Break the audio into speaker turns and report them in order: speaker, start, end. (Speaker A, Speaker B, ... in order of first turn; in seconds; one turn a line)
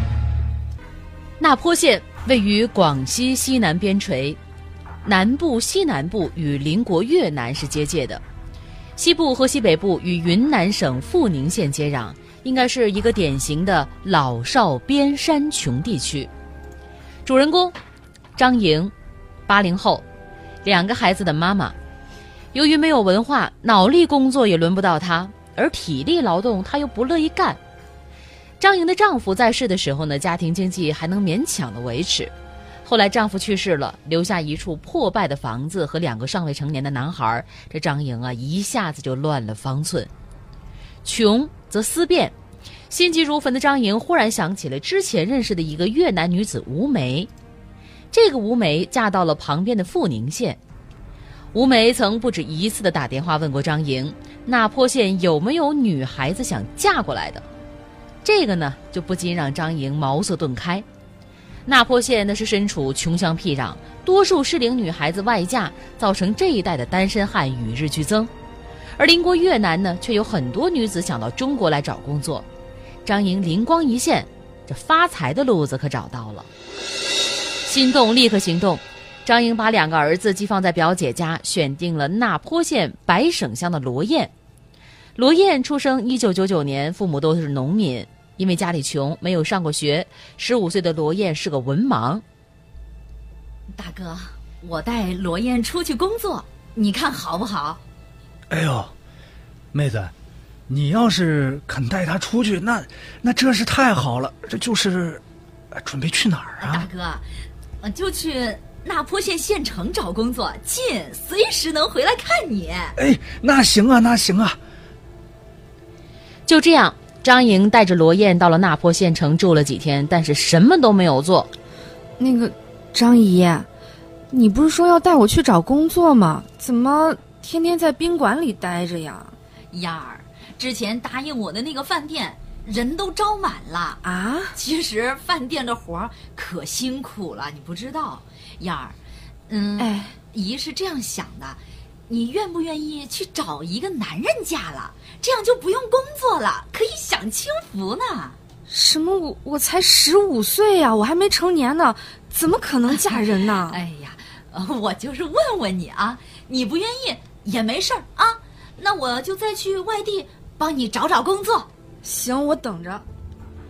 Speaker A: 1.4-4.4
Speaker A: 5.0-8.2
Speaker A: 9.0-16.3
Speaker A: 17.2-17.8
Speaker A: 18.4-18.9
Speaker A: 19.5-20.1
Speaker A: 20.6-21.8
Speaker A: 22.5-27.6
Speaker A: 28.6-32.3
Speaker A: 32.9-40.1
Speaker A: 41.0-42.3
Speaker A: 42.9-47.3
Speaker A: 48.1-50.6
Speaker A: 51.5-57.4
Speaker A: 58.2-60.9
Speaker A: 61.7-68.3
Speaker A: 69.0-72.5
Speaker A: 73.0-76.5
Speaker A: 77.7-84.3
Speaker A: 85.2-92.2
Speaker B: 93.7-97.8
Speaker C: 98.5-98.9
Speaker C: 99.7-100.1
Speaker C: 100.7-105.2
Speaker C: 105.7-106.9
Speaker B: 106.6-107.2
Speaker B: 107.8-113.0
Speaker C: 113.0-114.6
Speaker A: 116.5-121.5
Speaker D: 122.2-123.7
Speaker D: 124.3-129.3
Speaker B: 129.7-139.0
Speaker D: 134.1-134.5
Speaker B: 139.5-148.4
Speaker D: 139.8-140.1
Speaker D: 148.7-153.7
Speaker B: 152.9-161.7
Speaker D: 162.0-163.1